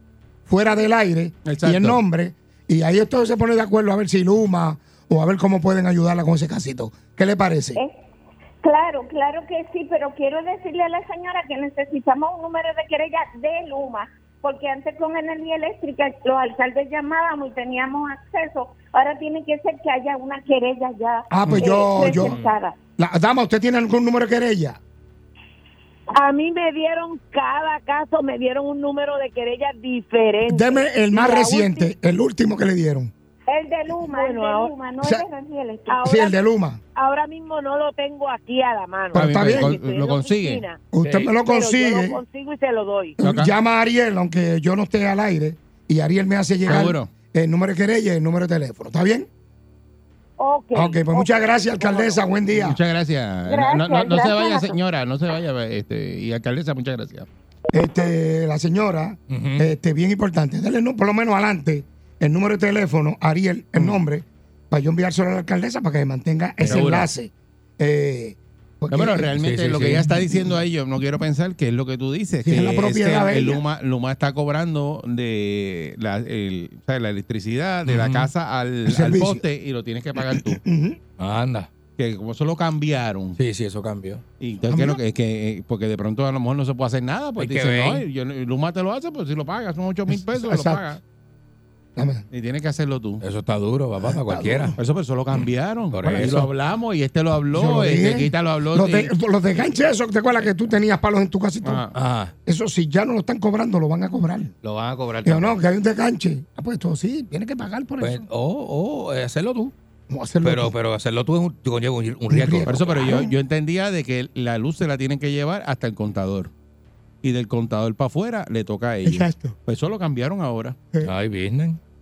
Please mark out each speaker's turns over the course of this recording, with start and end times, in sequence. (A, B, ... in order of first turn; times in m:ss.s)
0:00.5-0:07.8 A
0:01.4-0:02.0 B
0:08.6-0:22.8 C
0:21.3-0:22.4 A
0:21.5-0:22.5 D
0:23.0-0:24.8 A
0:26.1-0:31.9 E
0:30.4-0:33.1 A
0:33.5-0:36.2 C
0:34.1-0:34.7 E
0:35.9-0:36.3 E
0:36.0-0:36.8 A
0:37.0-0:40.8 E
0:39.1-0:39.7 A
0:39.1-0:40.6 B
0:40.9-0:42.2 A
0:41.0-0:41.3 D
0:41.4-0:43.2 E
0:43.2-0:43.5 B
0:43.2-0:49.3 A
0:46.6-0:47.1 B
0:50.4-0:52.2 E
0:50.7-0:52.8 A
0:52.5-0:57.3 B
0:53.5-0:54.8 C
0:57.7-1:09.3 A
0:59.3-0:59.6 D
1:03.8-1:04.0 B
1:06.6-1:07.1 D
1:06.6-1:07.0 B
1:08.9-1:20.6 B
1:09.3-1:10.4 D
1:12.4-1:13.6 A
1:17.8-1:18.3 D
1:18.9-1:19.4 A
1:20.2-1:21.0 A
1:21.2-1:21.7 D
1:22.0-1:23.4 B
1:23.4-1:24.2 D
1:24.4-1:31.0 B
1:24.7-1:25.0 A
1:27.4-1:28.0 D
1:30.1-1:30.8 A
1:32.0-1:32.2 A
1:32.3-1:33.2 B
1:33.2-1:34.8 D
1:34.0-1:34.8 A
1:34.8-1:39.1 B
1:35.3-1:36.5 D
1:37.5-1:41.8 A
1:41.6-1:41.9 B
1:41.9-1:42.3 D
1:42.4-1:44.5 A
1:44.6-1:45.6 D
1:45.2-1:48.2 A
1:48.0-1:49.7 D
1:50.1-1:50.7 A
1:50.4-1:53.2 D
1:52.3-1:53.3 A
1:52.7-1:56.5 B
1:57.2-2:00.8 B
1:59.0-1:59.6 A
2:01.0-2:01.8 D